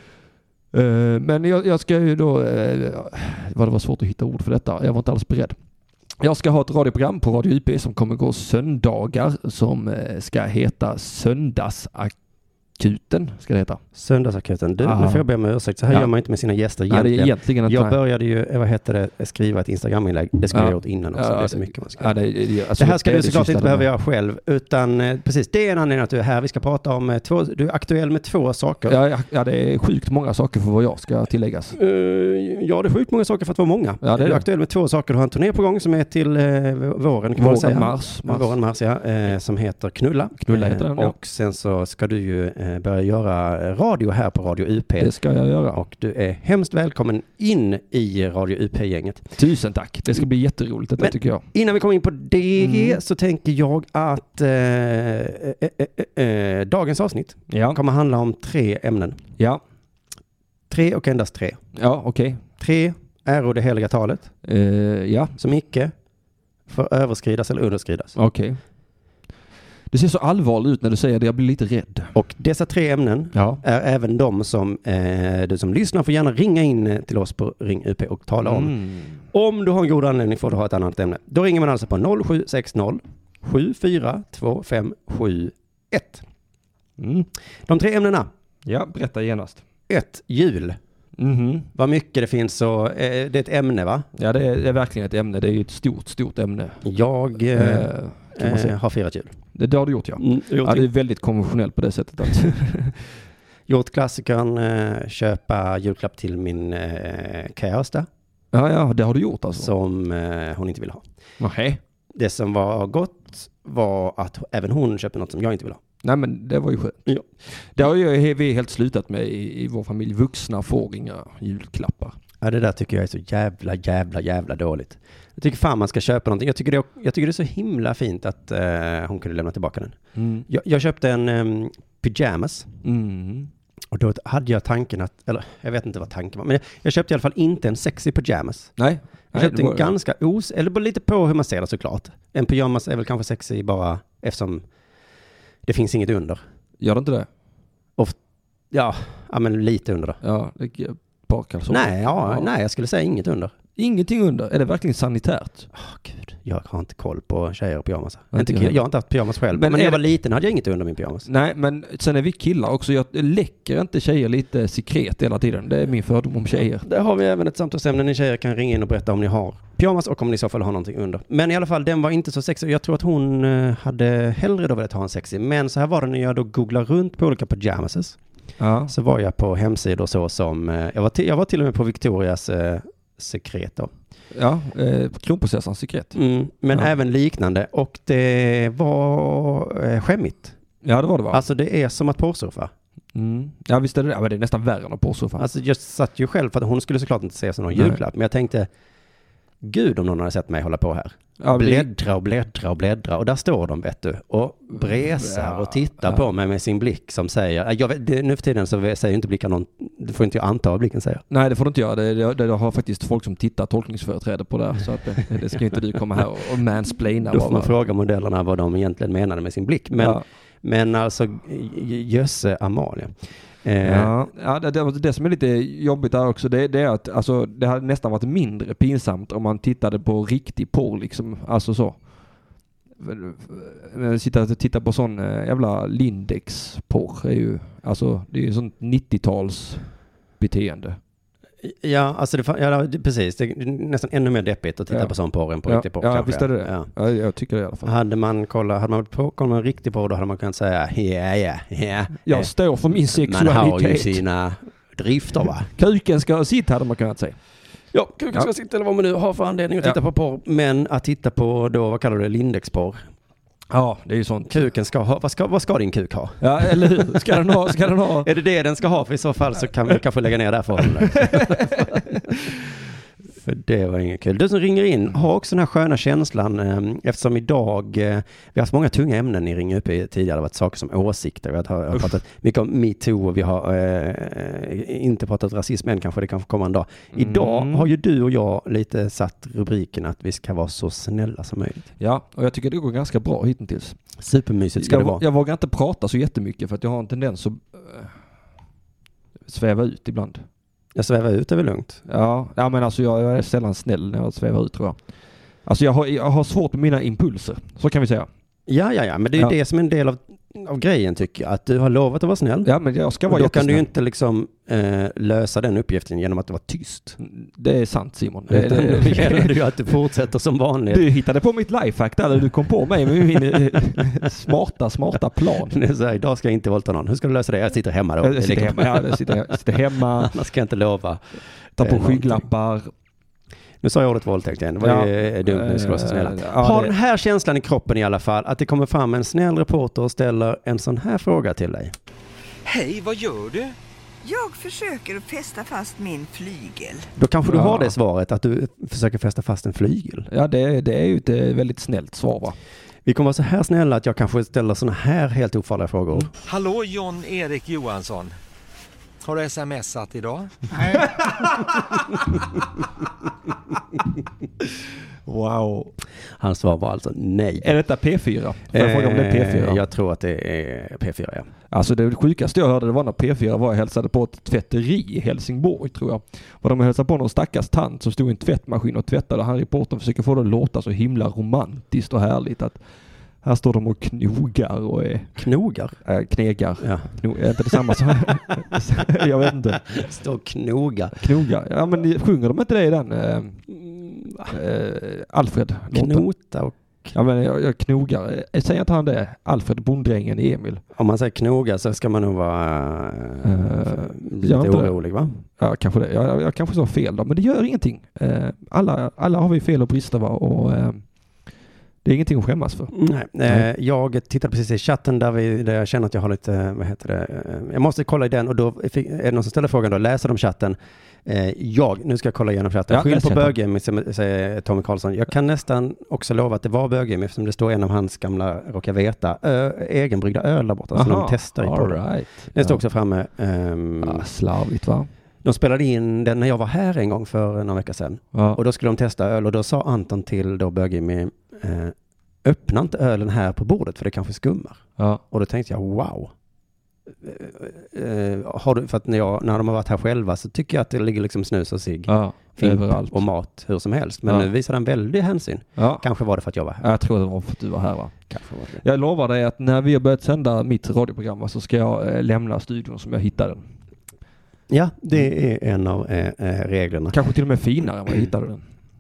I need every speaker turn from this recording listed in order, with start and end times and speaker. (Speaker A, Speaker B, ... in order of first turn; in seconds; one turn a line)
Speaker A: 0.7-5.6
Speaker A: 6.2-12.1
Speaker A: 12.8-13.8
Speaker B: 13.9-22.2
Speaker A: 14.8-15.3
Speaker A: 16.9-18.0
Speaker A: 20.5-23.9
Speaker B: 22.8-29.0
Speaker A: 28.9-31.8
Speaker B: 31.7-45.1
Speaker A: 34.0-34.4
Speaker A: 37.4-38.6
Speaker A: 40.5-41.2
Speaker A: 45.0-45.8
Speaker B: 45.7-49.3
Speaker A: 49.4-51.5
Speaker B: 51.0-59.2
Speaker A: 52.6-53.0
Speaker A: 57.5-57.8
Speaker B: 60.7-61.6
Speaker A: 61.8-62.4
Speaker B: 62.6-64.3
Speaker A: 64.4-65.4
Speaker B: 65.4-65.9
Speaker B: 66.7-68.2
Speaker A: 68.2-68.6
Speaker A: 69.9-72.1
Speaker B: 72.2-78.8
Speaker A: 73.3-73.6
Speaker A: 78.4-79.2
Speaker B: 79.3-86.2
Speaker A: 87.0-87.3
Speaker B: 87.7-88.3
Speaker A: 88.7-89.6
Speaker B: 89.9-90.8
Speaker A: 91.2-91.7
Speaker B: 91.8-94.1
Speaker A: 94.2-96.8
Speaker B: 96.8-99.3
Speaker A: 97.5-98.8
Speaker A: 99.5-103.0
Speaker B: 100.2-100.9
Speaker B: 103.7-108.1
Speaker A: 108.5-109.7
Speaker B: 109.5-111.0
Speaker A: 111.4-111.8
Speaker B: 112.2-115.8
Speaker A: 116.0-117.1
Speaker A: 117.8-122.2
Speaker B: 122.4-130.0
Speaker A: 130.2-130.4
Speaker B: 130.5-132.7
Speaker A: 132.8-133.5
Speaker B: 133.9-138.7
Speaker A: 138.8-139.9
Speaker B: 139.3-144.6
Speaker B: 145.7-146.4
Speaker A: 146.8-147.3
Speaker B: 148.7-150.2
Speaker A: 150.2-152.5
Speaker B: 151.7-153.5
Speaker A: 153.8-155.7
Speaker B: 155.7-161.3
Speaker A: 158.3-158.8
Speaker A: 159.5-160.0
Speaker A: 161.3-166.8
Speaker B: 166.8-178.2
Speaker A: 178.6-178.9
Speaker B: 178.9-183.9
Speaker A: 184.3-186.2
Speaker B: 186.2-190.6
Speaker A: 190.8-191.4
Speaker B: 191.3-192.7
Speaker A: 193.2-195.4
Speaker B: 195.4-198.7
Speaker A: 197.7-198.0
Speaker B: 199.6-211.2
Speaker A: 201.4-201.9
Speaker A: 204.8-206.2
Speaker A: 211.3-217.7
Speaker B: 217.3-224.1
Speaker A: 220.0-220.2
Speaker A: 223.8-232.0
Speaker A: 233.0-239.8
Speaker A: 240.4-241.0
Speaker B: 241.6-246.9
Speaker A: 245.7-247.9
Speaker B: 247.8-252.5
Speaker A: 252.2-254.2
Speaker B: 253.2-255.7
Speaker A: 255.8-257.4
Speaker B: 257.9-263.0
Speaker A: 263.7-264.6
Speaker B: 264.5-272.3
Speaker A: 266.4-268.3
Speaker A: 271.1-272.2
Speaker B: 273.4-291.9
Speaker A: 287.1-287.9
Speaker A: 292.0-294.0
Speaker B: 294.2-295.2
Speaker A: 294.8-298.1
Speaker A: 299.5-300.4
Speaker B: 301.0-302.0
Speaker A: 302.1-305.0
Speaker A: 305.6-308.3
Speaker B: 308.7-312.7
Speaker A: 312.6-313.9
Speaker B: 313.3-317.2
Speaker A: 317.2-319.6
Speaker B: 318.5-321.1
Speaker A: 320.9-325.8
Speaker B: 325.7-329.6
Speaker A: 328.2-330.4
Speaker B: 330.2-331.2
Speaker B: 331.8-332.4
Speaker A: 331.8-332.9
Speaker B: 333.8-341.9
Speaker A: 334.8-336.9
Speaker C: 342.6-343.8
Speaker D: 344.2-347.1
Speaker B: 347.2-350.3
Speaker A: 347.5-347.9
Speaker A: 350.3-352.6
Speaker B: 353.1-356.3
Speaker C: 356.4-358.3
Speaker C: 359.2-361.0
Speaker A: 360.8-361.6
Speaker A: 365.3-365.9
Speaker B: 366.4-367.7
Speaker A: 367.6-369.8
Speaker B: 368.7-371.5
Speaker A: 371.7-382.8
Speaker A: 383.4-385.4
Speaker B: 385.4-386.0
Speaker A: 386.1-389.9
Speaker B: 386.8-388.2
Speaker B: 389.9-391.2
Speaker A: 391.2-393.6
Speaker B: 393.9-394.5
Speaker A: 394.5-396.3
Speaker B: 395.9-397.1
Speaker A: 397.1-400.8
Speaker B: 400.9-405.4
Speaker A: 403.4-404.9
Speaker A: 405.6-411.0
Speaker A: 412.0-412.9
Speaker B: 412.9-434.2
Speaker A: 422.9-423.6
Speaker A: 430.9-432.8
Speaker A: 434.0-435.1
Speaker B: 435.4-446.3
Speaker A: 438.3-438.6
Speaker B: 447.2-456.9
Speaker A: 452.1-453.2
Speaker A: 455.8-456.0
Speaker A: 456.8-458.2
Speaker B: 458.3-458.8
Speaker A: 458.8-463.6
Speaker B: 464.7-467.2
Speaker A: 467.1-468.6